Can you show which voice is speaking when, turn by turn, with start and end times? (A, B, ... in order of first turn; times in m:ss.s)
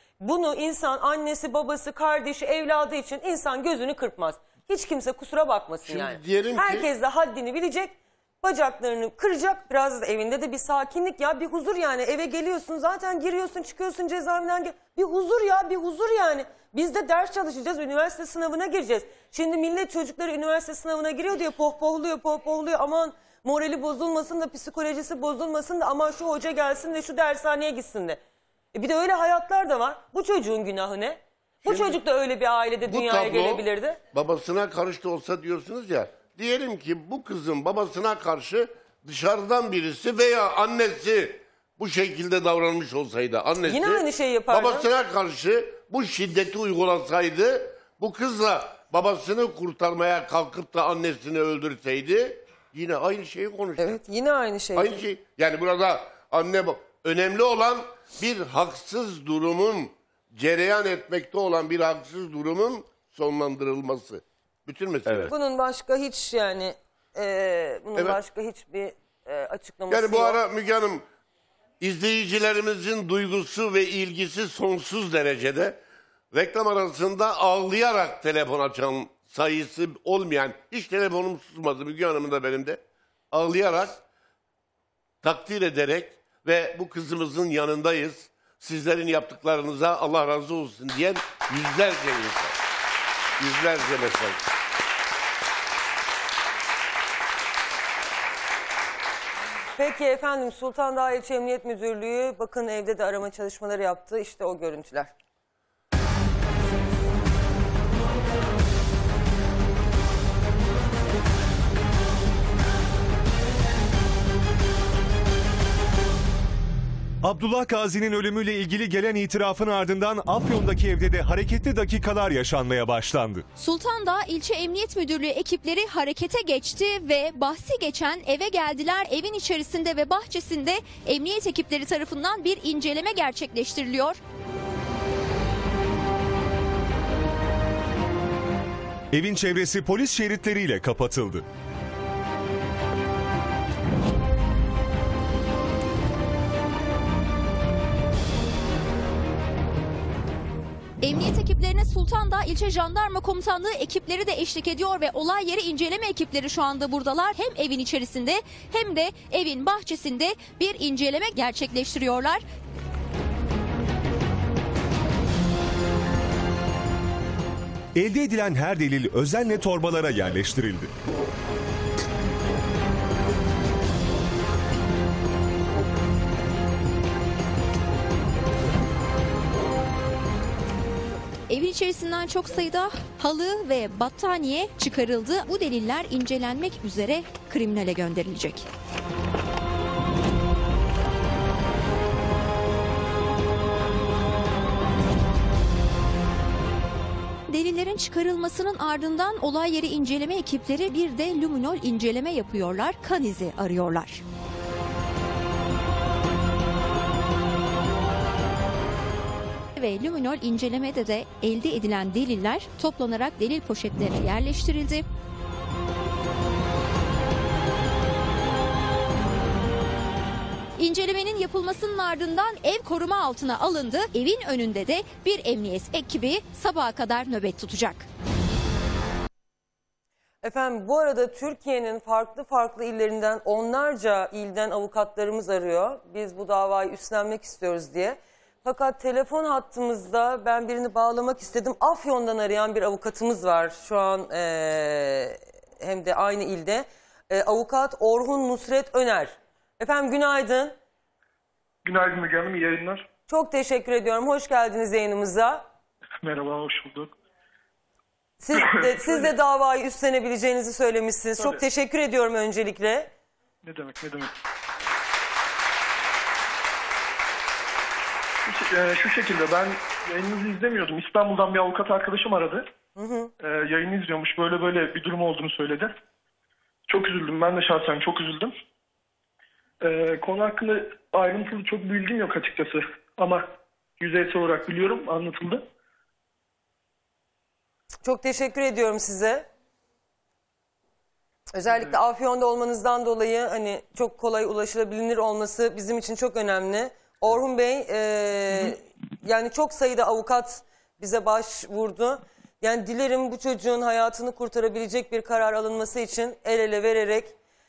0:00.2-0:28.2 A
0:05.8-0:06.9 B
0:28.7-0:34.0 A
0:31.7-0:31.9 B
0:32.9-0:54.0 B
0:43.6-0:44.9 A
0:53.8-0:55.0 A
0:54.7-1:05.3 B
1:05.3-1:10.4 A
1:09.9-1:11.0 B
1:11.8-1:15.8 B
1:16.3-1:22.8 B
1:23.3-1:24.0 B
1:25.2-1:32.5 B
1:33.4-1:34.4 B
1:39.8-1:45.1 A
1:57.2-2:03.4 C
2:03.6-2:14.2 D
2:19.1-2:21.4 C
2:31.0-2:42.4 D
2:48.0-2:50.9 C
3:01.5-3:08.7 D
3:17.5-3:24.2 D
3:29.8-3:35.0 D
3:40.8-3:48.0 D
3:50.4-4:10.7 A
4:11.8-4:13.0 E
4:13.3-4:15.6 A
4:16.2-4:17.1 E
4:18.4-4:23.1 A
4:18.5-4:19.3 E
4:21.4-4:21.6 E
4:23.6-4:24.3 E
4:28.5-4:32.6 E
4:33.0-4:33.3 A
4:33.4-4:35.9 E
4:36.9-4:38.5 E
4:39.8-4:43.4 E
4:44.0-4:45.6 E
4:48.0-4:49.5 A
4:51.5-5:07.3 A